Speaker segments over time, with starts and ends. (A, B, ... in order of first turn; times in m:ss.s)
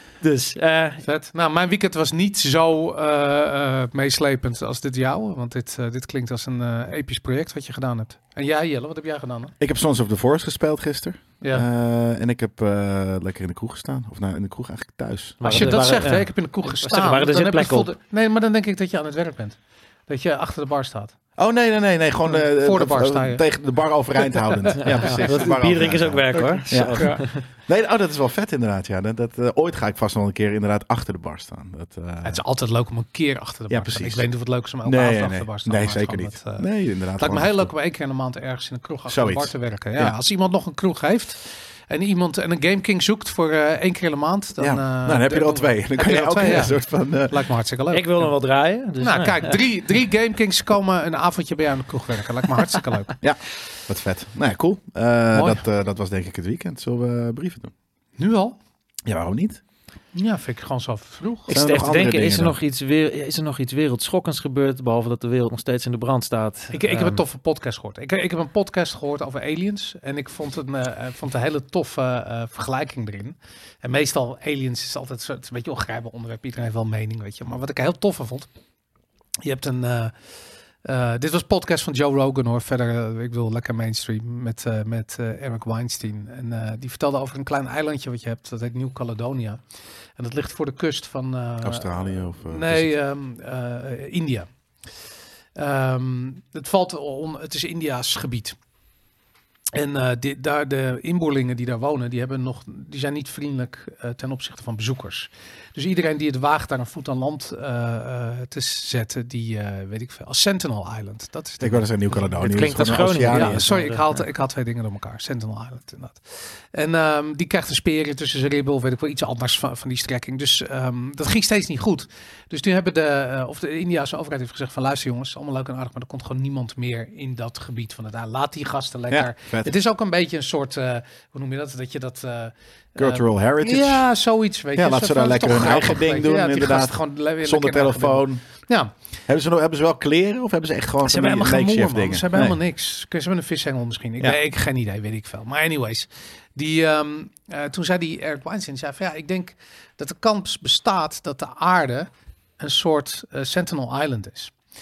0:00.2-0:01.0 A
0:01.0-0:09.6 B
0:09.6-0:15.8 C
0:15.4-0:17.9 A
0:15.4-0:21.2 B
0:21.4-0:32.4 C
0:22.2-0:23.4 B
0:24.2-0:25.2 B
0:24.8-0:27.4 A
0:26.5-0:27.2 B
0:32.2-0:48.3 B
0:33.7-0:34.3 C
0:34.8-0:37.7 C
0:39.1-0:40.2 C
0:44.6-0:47.4 C
0:47.9-0:49.6 A
0:49.0-0:53.2 B
0:53.2-0:57.7 C
0:55.3-0:55.6 B
0:58.2-0:58.6 B
0:59.1-0:59.6 C
1:00.1-1:01.5 B
1:01.5-1:07.2 A
1:01.5-1:02.6 C
1:06.7-1:18.5 B
1:19.4-1:20.1 B
1:20.8-1:29.6 B
1:30.2-1:34.5 B
1:31.6-1:32.9 C
1:35.6-1:38.6 B
1:39.7-1:51.9 B
1:51.6-1:53.6 C
1:52.4-1:54.2 A
1:53.3-1:56.2 B
1:56.7-2:18.9 B
2:09.1-2:09.7 C
2:13.0-2:14.0 C
2:14.8-2:18.4 C
2:19.3-2:22.6 C
2:21.0-2:34.6 B